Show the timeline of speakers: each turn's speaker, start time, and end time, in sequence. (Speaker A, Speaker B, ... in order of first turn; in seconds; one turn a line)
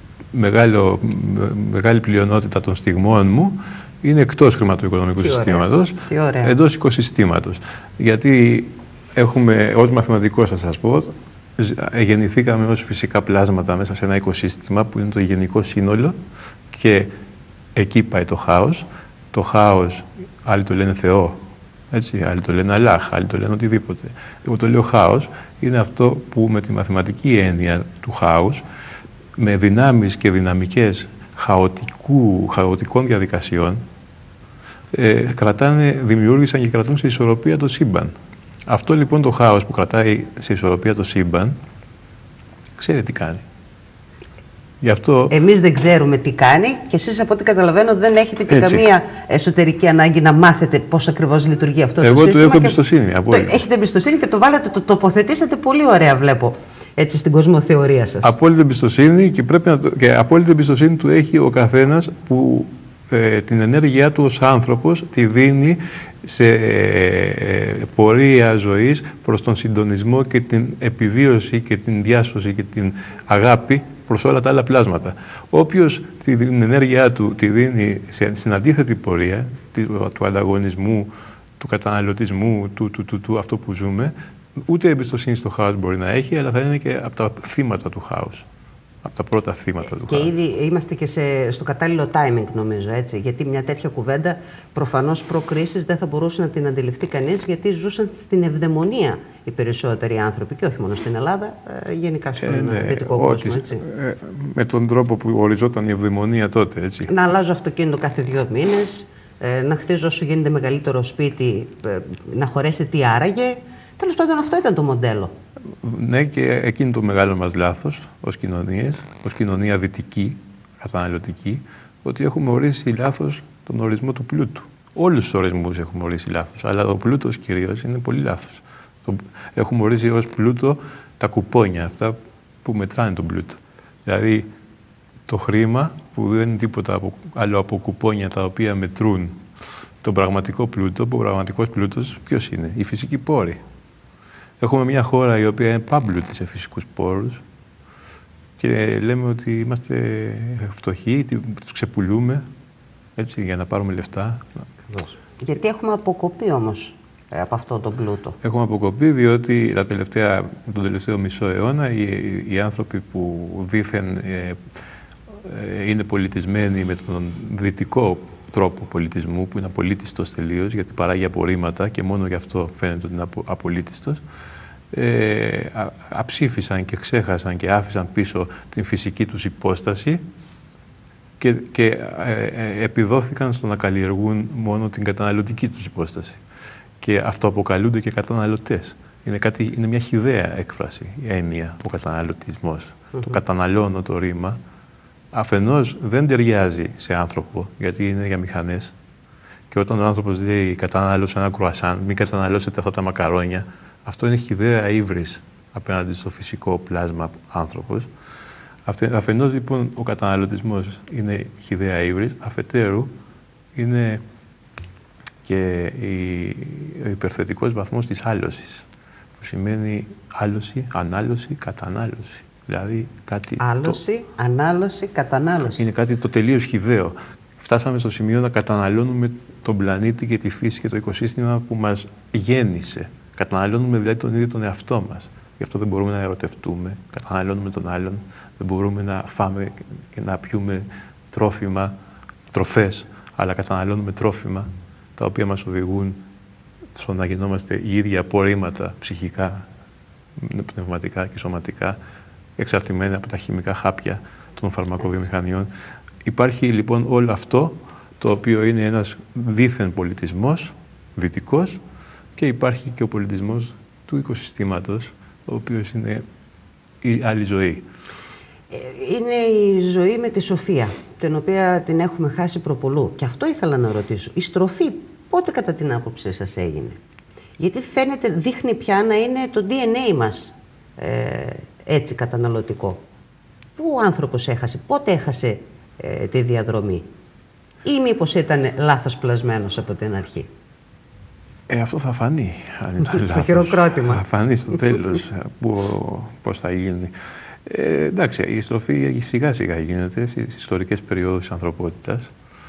Speaker A: 0.3-16.1
Speaker B: 5.2-6.5
Speaker A: 16.7-17.1
Speaker A: 17.7-21.4
Speaker A: 21.9-28.6
Speaker A: 29.4-33.8
Speaker A: 34.9-38.1
Speaker A: 38.7-41.5
Speaker A: 42.8-43.4
Speaker A: 44.8-45.3
Speaker B: 45.3-58.3
Speaker A: 48.5-48.8
Speaker A: 52.0-53.6
Speaker A: 58.2-88.4
Speaker A: 89.0-90.3
Speaker B: 90.0-103.8
Speaker A: 102.4-107.1
Speaker B: 107.1-115.3
Speaker A: 115.8-134.5
Speaker A: 135.3-139.4
Speaker A: 140.0-143.6
Speaker A: 144.6-147.4
Speaker A: 148.6-152.4
Speaker A: 153.2-154.6
Speaker B: 154.9-158.4
Speaker A: 158.4-164.6
Speaker A: 165.4-174.2
Speaker A: 174.9-180.2
Speaker A: 181.4-186.4
Speaker A: 187.0-194.6
Speaker A: 195.3-198.9
Speaker A: 199.7-208.1
Speaker A: 208.8-213.1
Speaker A: 213.7-214.2
Speaker A: 215.4-218.8
Speaker A: 219.4-224.0
Speaker B: 223.6-225.8
Speaker A: 225.8-241.9
Speaker A: 242.5-246.2
Speaker A: 246.9-249.7
Speaker A: 250.3-252.0
Speaker A: 252.6-255.7
Speaker A: 256.2-261.8
Speaker A: 262.4-266.2
Speaker A: 267.0-267.9
Speaker B: 268.7-277.0
Speaker B: 277.6-283.0
Speaker B: 283.8-287.1
Speaker B: 287.8-290.5
Speaker A: 291.7-297.1
Speaker B: 293.0-294.2
Speaker A: 297.6-302.3